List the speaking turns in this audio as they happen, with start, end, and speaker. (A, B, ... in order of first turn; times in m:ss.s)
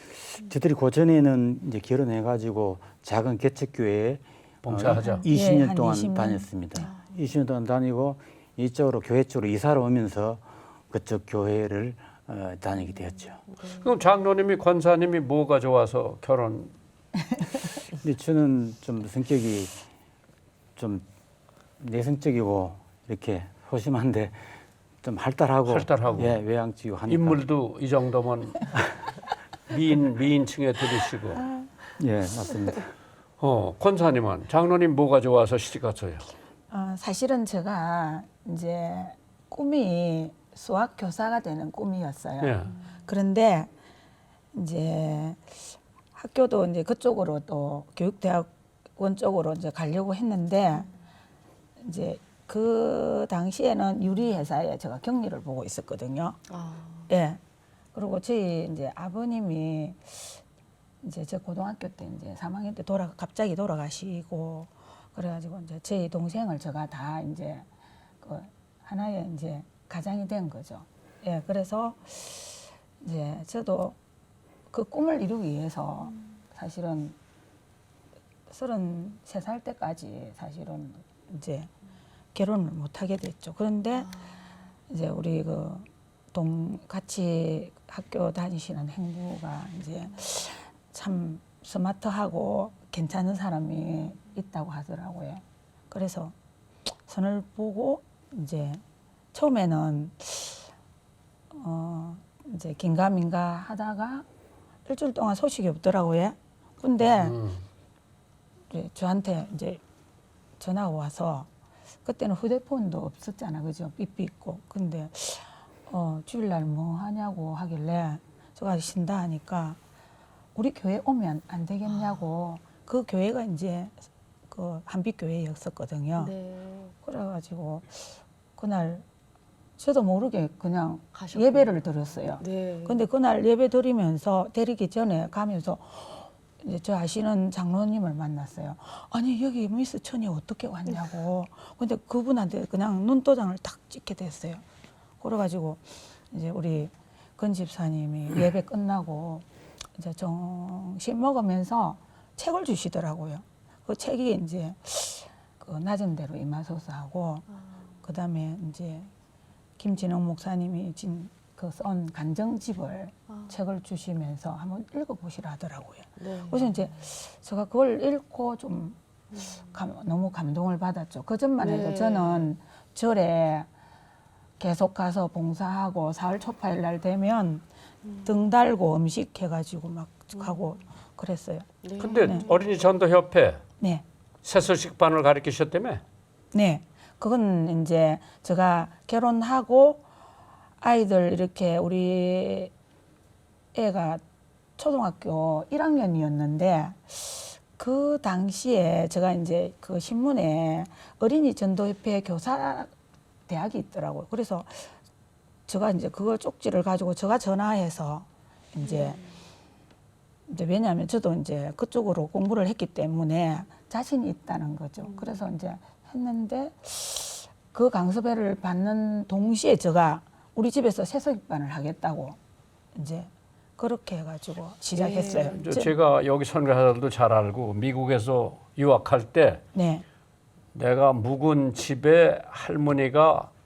0:00.3-0:13.4 A
0:04.6-0:05.2 B
0:04.9-0:06.8 C
0:06.8-0:07.0 D
0:13.5-0:13.8 D
0:13.7-0:16.7 B
0:17.9-0:19.8 A
0:20.8-0:21.0 A
0:21.8-0:27.4 A
0:25.6-0:26.4 B
0:27.1-0:28.8 B
0:29.7-0:31.4 B
0:32.0-0:32.9 A
0:33.4-0:36.2 B
0:36.7-0:43.7 C
0:42.4-0:42.7 B
0:44.5-0:45.6 C
0:46.1-0:50.9 C
0:51.8-0:56.4 C
0:56.5-0:57.1 D
0:57.1-0:57.4 C
0:57.9-1:00.4 C
1:01.0-1:07.6 C
1:08.2-1:14.0 C
1:14.7-1:17.2 C
1:18.5-1:21.7 C
1:22.3-1:24.2 C
1:24.9-1:36.3 C
1:36.9-1:38.8 C
1:39.3-1:40.7 C
1:41.5-1:44.2 C
1:44.8-1:47.4 C
1:47.2-1:47.6 B
1:48.7-1:49.8 C
1:50.6-1:51.5 C
1:52.0-1:59.8 C
2:00.5-2:06.3 C
2:01.9-2:02.3 D
2:06.2-2:06.9 D
2:07.0-2:09.0 C
2:09.8-2:24.6 C
2:11.1-2:11.8 D
2:12.4-2:13.0 D
2:25.2-2:37.5 C
2:38.0-2:39.1 C
2:39.8-2:49.0 C
2:43.3-2:43.6 D
2:46.2-2:46.9 D
2:49.6-2:53.7 C
2:51.6-2:52.5 D
2:54.6-2:57.6 C
2:58.0-2:58.3 D
2:58.2-3:01.7 C
3:01.8-3:02.6 D
3:02.0-3:03.6 B
3:02.2-3:02.5 C
3:04.4-3:06.0 B
3:06.5-3:10.0 C
3:10.8-3:12.7 C
3:13.7-3:14.2 C
3:14.8-3:22.9 C
3:23.5-3:24.9 C
3:25.7-3:29.2 C
3:28.8-3:29.3 D
3:30.5-3:42.4 C
3:35.0-3:35.4 D
3:42.9-3:45.9 C
3:44.9-3:45.8 D
3:45.5-3:49.6 B
3:49.7-3:50.0 C
3:50.7-3:53.5 B